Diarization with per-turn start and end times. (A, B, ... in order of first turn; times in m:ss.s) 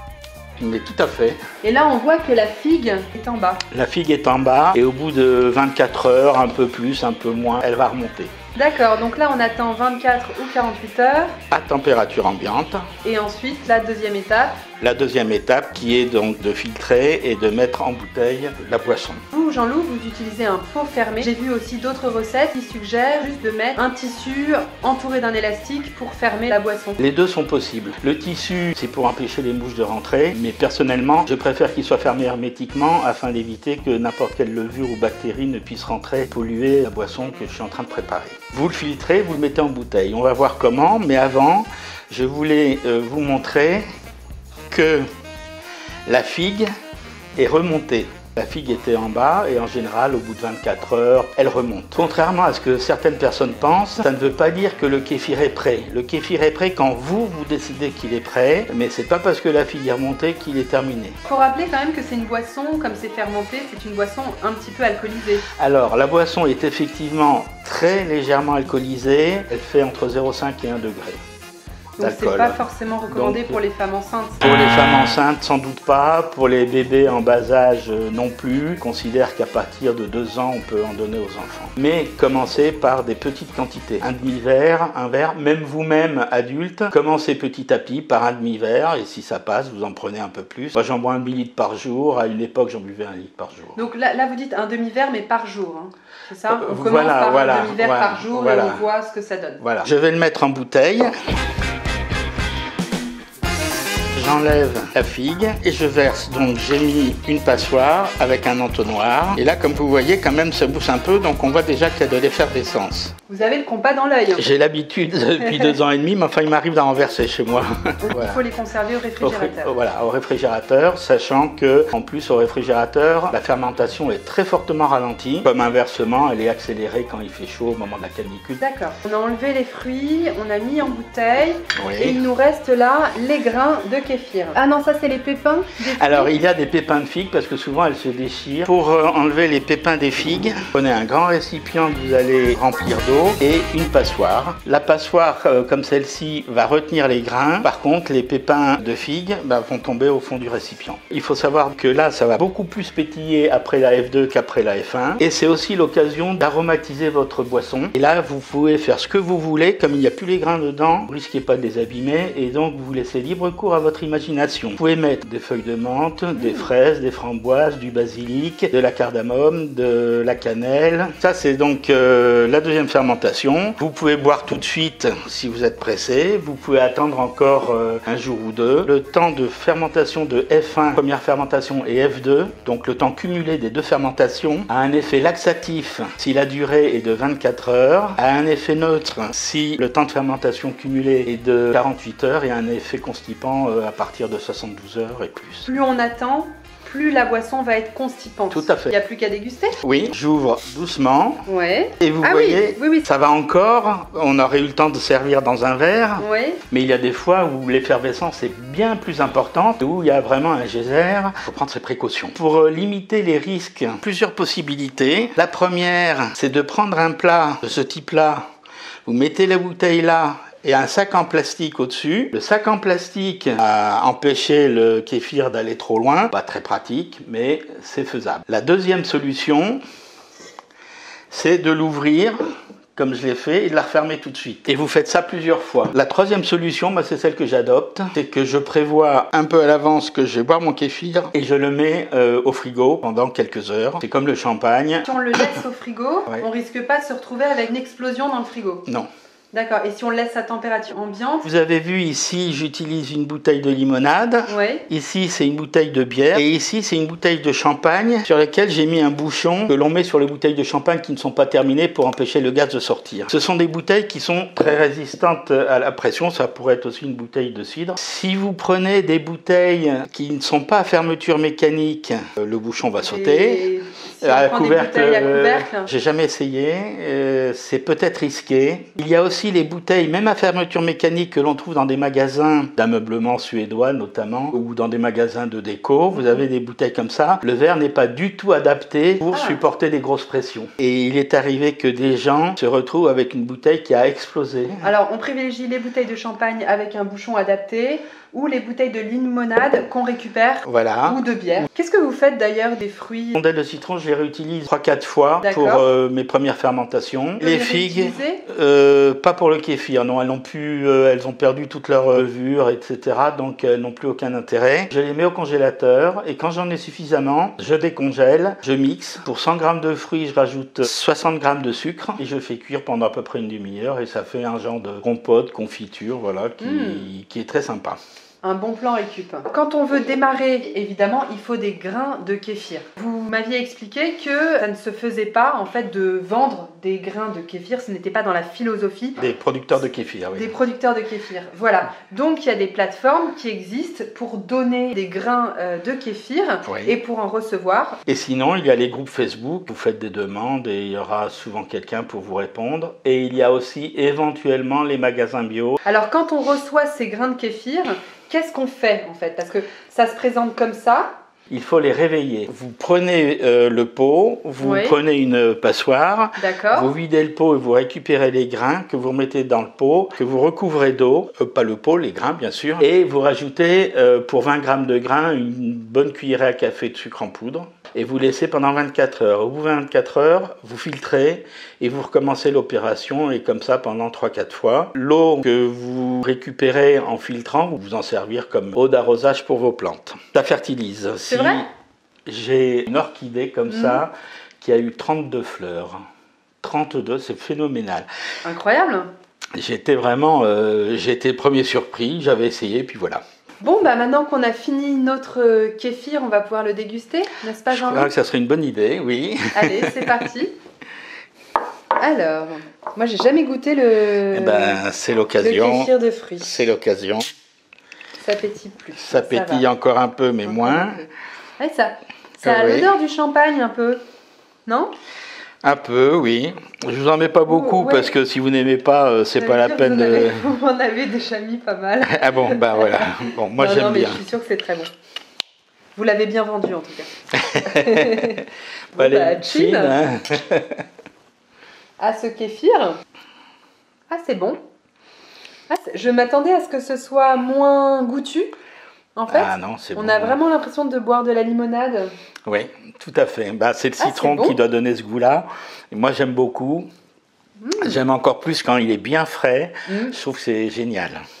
0:00.6-0:01.4 A
0:01.6-0:03.6 B
0:03.7-0:08.3 A
0:08.5-0:11.4 B
0:11.5-0:12.8 A
0:13.0-0:14.6 B
0:14.8-0:19.2 A
0:19.3-0:27.0 B
0:27.0-0:43.8 A
0:44.7-0:45.0 A
0:46.0-0:46.7 A
0:47.4-1:01.2 A
1:01.2-1:05.4 B
1:05.6-1:11.2 A
1:12.0-1:14.4 B
1:12.0-1:13.6 A
1:14.4-1:33.8 A
1:33.8-1:39.6 B
1:36.5-1:38.8 A
1:39.6-1:41.1 A
1:44.1-1:53.1 A
1:53.3-1:54.4 B
1:54.4-1:58.4 A
1:58.0-1:59.7 B
1:59.2-2:08.6 A
2:08.6-2:16.3 B
2:11.7-2:12.2 A
2:15.9-3:15.7 A
2:46.4-2:46.7 B
3:15.7-3:19.8 B
3:18.5-3:18.9 A
3:19.8-3:21.4 A
3:21.5-3:23.0 B
3:22.0-3:38.4 A
3:26.2-3:26.6 B
3:39.0-3:49.8 A
3:51.3-3:52.4 A
3:53.0-4:05.6 A
4:05.0-4:08.8 B
4:09.5-4:11.4 B
4:11.4-4:33.6 A
4:14.5-4:14.8 B
4:33.0-4:35.9 B
4:34.2-4:54.9 A
4:46.1-4:46.4 B
4:49.3-4:49.6 B
4:54.8-5:03.4 B
5:00.6-5:01.2 A
5:03.4-5:28.0 A
5:05.4-5:05.8 B
5:07.4-5:08.4 B
5:26.6-5:27.1 B
5:28.4-5:39.2 B
5:39.2-5:40.5 A
5:40.3-5:48.0 B
5:46.6-5:46.9 A
5:48.1-5:55.8 A
5:55.8-6:01.1 B
6:01.5-6:31.7 A
6:04.6-6:05.0 B
6:06.4-6:06.9 B
6:31.2-6:31.6 B
6:32.3-6:36.0 A
6:33.7-6:34.0 B
6:36.6-6:38.1 A
6:38.4-6:39.1 B
6:39.6-6:43.2 A
6:43.6-6:48.1 B
6:47.7-6:50.0 A
6:49.5-6:50.5 B
6:52.0-6:54.8 B
6:54.3-6:57.3 A
6:55.4-6:56.7 B
6:58.2-6:59.6 B
6:59.0-7:01.0 A
7:00.4-7:04.0 B
7:02.4-7:02.9 A
7:04.6-7:04.9 B
7:05.6-7:10.5 A
7:07.5-7:08.1 B
7:09.4-7:14.9 B
7:12.0-7:14.2 A
7:15.9-7:18.4 B
7:17.3-7:20.8 A
7:18.9-7:20.0 B
7:22.0-7:23.0 B
7:24.1-7:24.6 B
7:25.7-7:28.5 B
7:29.2-7:32.1 B
7:29.3-7:30.4 A
7:32.5-7:36.9 A
7:34.0-7:34.6 B
7:37.6-7:38.0 B
7:37.8-7:41.2 A
7:39.9-7:40.1 B